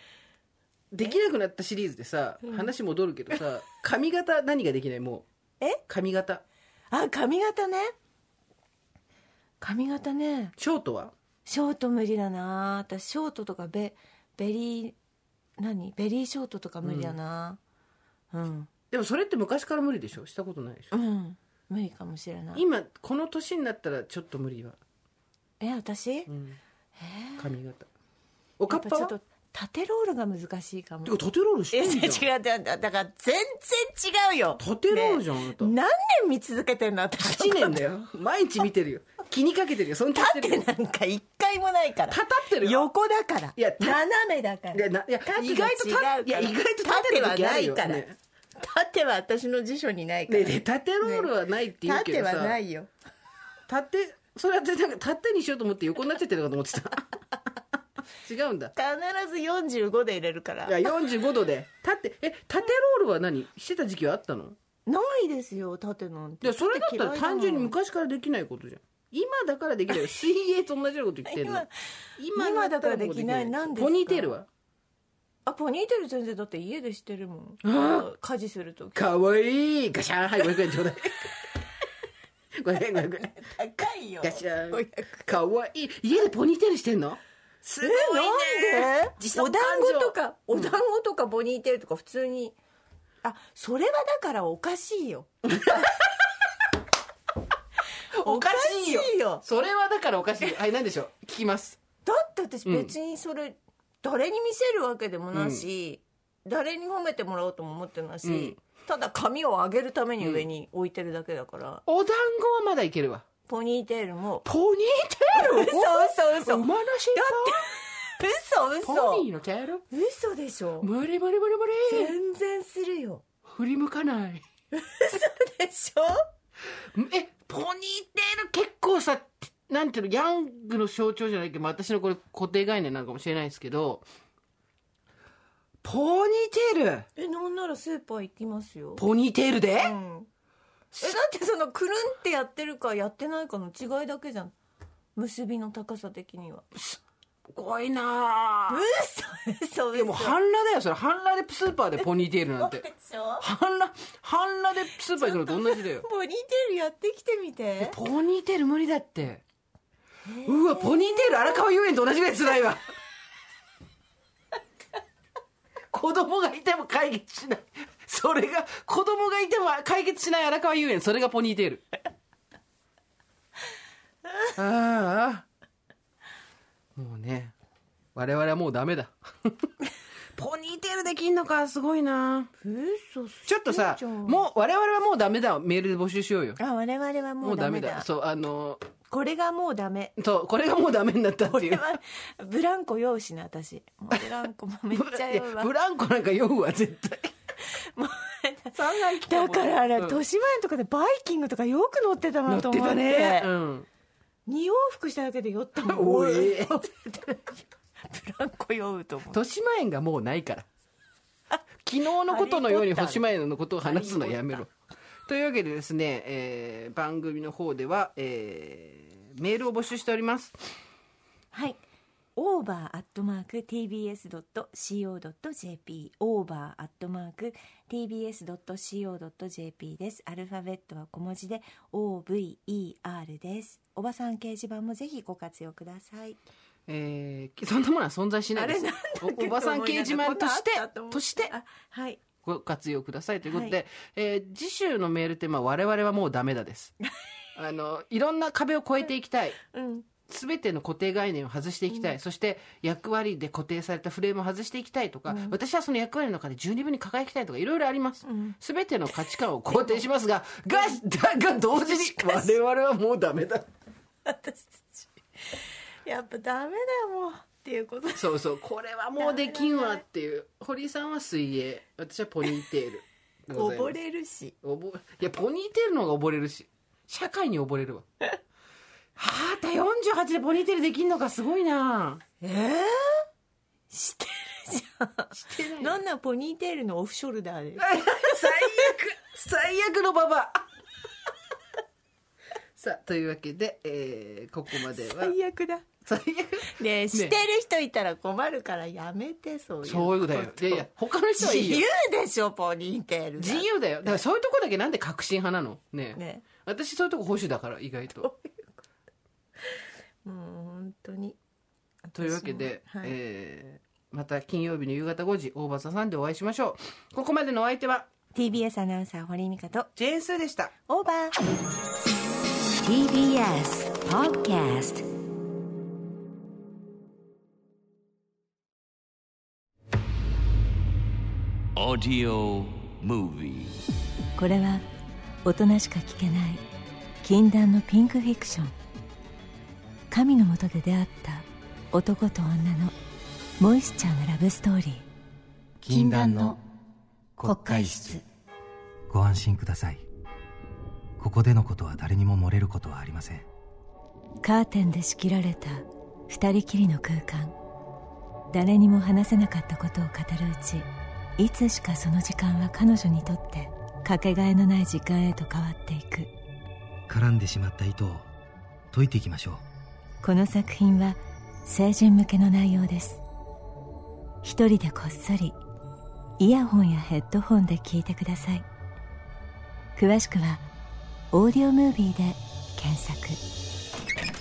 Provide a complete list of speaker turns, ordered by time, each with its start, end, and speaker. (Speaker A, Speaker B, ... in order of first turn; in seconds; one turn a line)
Speaker A: 0.9-5.3
Speaker A: 5.9-6.4
Speaker B: 6.9-8.0
Speaker B: 9.6-10.5
Speaker A: 10.6-11.1
Speaker B: 11.5-15.0
Speaker B: 15.6-17.6
Speaker A: 16.8-17.2
Speaker B: 18.3-18.7
Speaker A: 18.9-20.9
Speaker B: 20.9-22.6
Speaker A: 22.5-24.8
Speaker B: 25.6-26.3
Speaker A: 26.3-26.6
Speaker B: 27.0-27.5
Speaker A: 27.4-27.9
Speaker A: 28.6-29.1
Speaker B: 28.7-31.2
Speaker A: 31.1-32.2
Speaker B: 31.7-37.8
Speaker A: 34.6-35.7
Speaker A: 37.2-40.6
Speaker B: 40.1-48.0
Speaker A: 42.1-42.9
Speaker A: 43.6-44.0
Speaker A: 44.7-48.2
Speaker B: 48.6-51.3
Speaker A: 50.3-52.6
Speaker B: 51.8-52.9
Speaker A: 53.7-57.2
Speaker A: 58.2-58.7
Speaker B: 58.8-60.9
Speaker A: 60.7-64.6
Speaker B: 64.9-67.7
Speaker A: 66.4-71.7
Speaker B: 71.3-74.4
Speaker A: 72.2-74.5
Speaker B: 75.5-79.0
Speaker A: 77.6-78.1
Speaker A: 78.9-81.3
Speaker A: 82.5-83.3
Speaker B: 83.0-85.4
Speaker A: 84.2-90.8
Speaker B: 87.8-92.6
Speaker B: 93.2-95.8
Speaker A: 95.5-96.2
Speaker A: 98.1-101.8
Speaker B: 98.2-99.4
Speaker B: 102.0-111.8
Speaker A: 102.7-102.9
Speaker A: 105.3-105.7
Speaker A: 108.2-108.6
Speaker A: 110.2-110.5
Speaker A: 111.9-113.3
Speaker B: 113.5-114.5
Speaker A: 114.5-117.6
Speaker B: 115.3-119.2
Speaker A: 118.8-119.8
Speaker B: 119.9-120.9
Speaker A: 120.8-122.2
Speaker B: 121.9-123.2
Speaker A: 123.5-124.5
Speaker B: 124.7-126.2
Speaker A: 126.8-134.1
Speaker A: 135.8-137.1
Speaker B: 137.2-139.1
Speaker A: 139.0-139.9
Speaker B: 139.8-140.3
Speaker A: 140.9-141.2
Speaker B: 141.0-144.5
Speaker B: 145.2-146.7
Speaker A: 146.7-148.8
Speaker B: 148.7-150.4
Speaker A: 149.9-152.9
Speaker B: 152.6-153.4
Speaker A: 153.4-156.1
Speaker B: 155.2-158.0
Speaker A: 157.8-159.4
Speaker B: 160.3-161.6
Speaker A: 160.4-162.8
Speaker A: 165.9-171.8
Speaker A: 174.5-175.5
Speaker A: 177.0-177.5
Speaker A: 178.2-179.7
Speaker A: 180.4-182.5
Speaker B: 182.6-184.4
Speaker A: 183.5-186.6
Speaker B: 186.6-188.1
Speaker A: 187.4-188.8
Speaker B: 189.1-190.1
Speaker A: 190.2-191.9
Speaker B: 191.5-195.7
Speaker A: 194.9-197.3
Speaker B: 197.7-203.5
Speaker A: 198.7-200.2
Speaker A: 202.5-203.9
Speaker B: 204.5-209.4
Speaker A: 205.8-206.8
Speaker A: 209.3-210.7
Speaker A: 211.8-214.7
Speaker B: 212.2-213.3
Speaker B: 213.8-214.7
Speaker A: 215.3-220.6
Speaker B: 221.5-221.8
Speaker B: 222.4-236.4
Speaker A: 236.9-241.5
Speaker B: 238.6-242.2
Speaker A: 242.4-246.9
Speaker B: 243.5-243.8
Speaker A: 247.6-249.6
Speaker B: 249.7-250.1
Speaker A: 250.2-263.7
Speaker B: 255.3-255.6
Speaker B: 258.2-258.6
Speaker B: 259.7-260.1
Speaker B: 260.7-261.0
Speaker B: 261.8-262.5
Speaker B: 264.2-268.4
Speaker A: 268.1-274.0
Speaker B: 269.2-270.0
Speaker B: 273.5-274.5
Speaker A: 274.6-278.1
Speaker A: 279.2-282.2
Speaker B: 282.4-283.3
Speaker B: 283.9-288.9
Speaker A: 285.3-286.0
Speaker A: 287.8-290.6
Speaker A: 292.8-295.4
Speaker B: 294.9-295.9
Speaker A: 296.1-297.4
Speaker B: 296.6-303.7
Speaker A: 299.8-301.8
Speaker A: 303.4-308.3
Speaker B: 306.1-306.5
Speaker B: 308.2-308.6
Speaker B: 309.7-311.4
Speaker B: 312.1-313.1
Speaker A: 312.1-318.1
Speaker B: 318.4-319.9
Speaker A: 320.0-320.7
Speaker B: 320.9-321.4
Speaker C: 322.8-325.1
Speaker D: 331.8-333.8
Speaker B: 334.4-334.9
Speaker B: 335.4-336.6
Speaker B: 337.2-338.7
Speaker B: 340.1-342.9
Speaker B: 343.6-345.1
Speaker E: 345.8-346.6
Speaker B: 345.9-346.6
Speaker E: 347.4-348.2
Speaker B: 347.4-348.2
Speaker E: 349.1-350.1
Speaker E: 351.2-353.5
Speaker B: 354.4-357.6
Speaker B: 358.5-366.3
Speaker E: 367.1-368.3
Speaker E: 368.9-369.6
Speaker B: 370.2-373.2
Speaker B: 374.4-375.6
Speaker B: 376.4-378.7
Speaker B: 380.0-380.7
Speaker B: 381.3-383.4